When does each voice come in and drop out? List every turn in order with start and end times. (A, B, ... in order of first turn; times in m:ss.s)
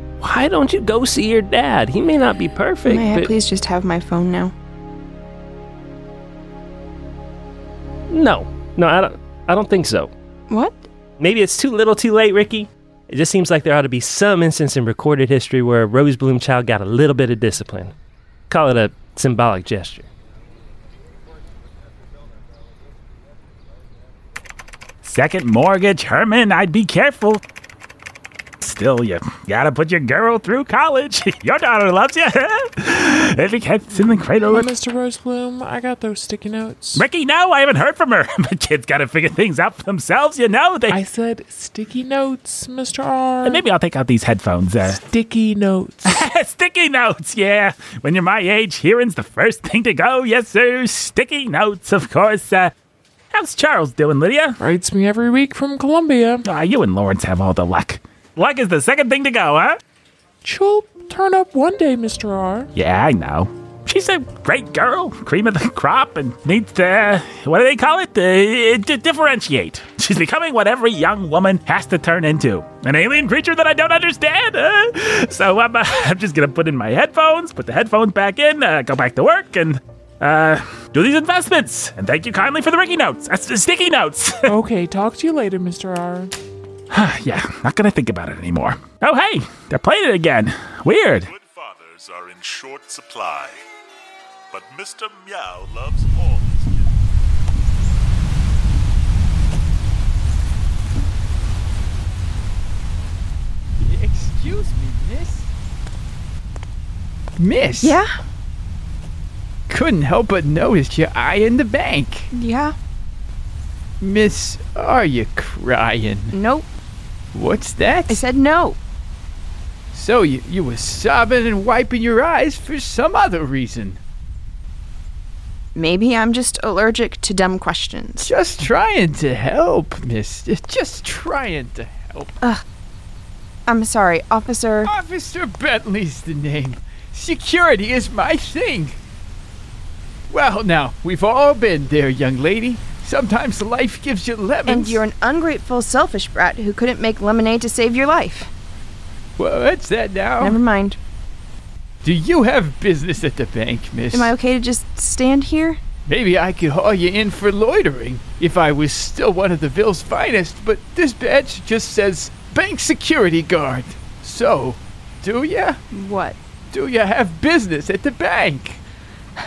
0:00.2-0:03.3 A
0:02.8-0:04.5 B
0:08.1-0:10.1 A
0:10.5-0:10.8 B
0:11.2-0:17.9 A
0:18.5-0:20.1 A
0:25.0-0:27.4 C
0:28.6-0:34.7 C
0:33.9-0:37.1 D
0:37.0-0:41.0 C
0:40.9-0:43.7 D
0:43.4-0:45.0 C
0:44.8-0:46.3 D
0:46.1-0:52.7 C
0:53.3-0:54.6 C
0:54.6-0:56.5 D
0:56.4-0:59.8 C
1:00.4-1:02.7 D
1:02.8-1:24.6 C
1:24.5-1:26.3 D
1:26.9-1:31.3 C
1:31.2-1:33.7 E
1:34.5-1:36.9 E
1:43.8-1:45.5 F
1:47.4-1:48.0 F
1:47.8-1:48.1 B
1:49.7-1:52.3 F
1:52.3-1:52.8 B
1:54.0-1:56.4 F
1:56.3-1:56.7 B
1:57.3-1:58.2 F
1:58.1-1:58.8 B
1:59.9-2:04.0 F
2:05.8-2:08.3 B
2:08.2-2:12.3 F
2:13.7-2:14.9 B
2:14.8-2:19.0 F
2:20.3-2:25.0 F
2:24.7-2:28.5 B
2:29.4-2:30.6 F
2:30.4-2:31.0 B
2:32.0-2:34.3 F
2:34.1-2:35.8 B
2:36.1-2:45.8 F
2:45.9-2:46.4 B
2:46.7-2:48.8 F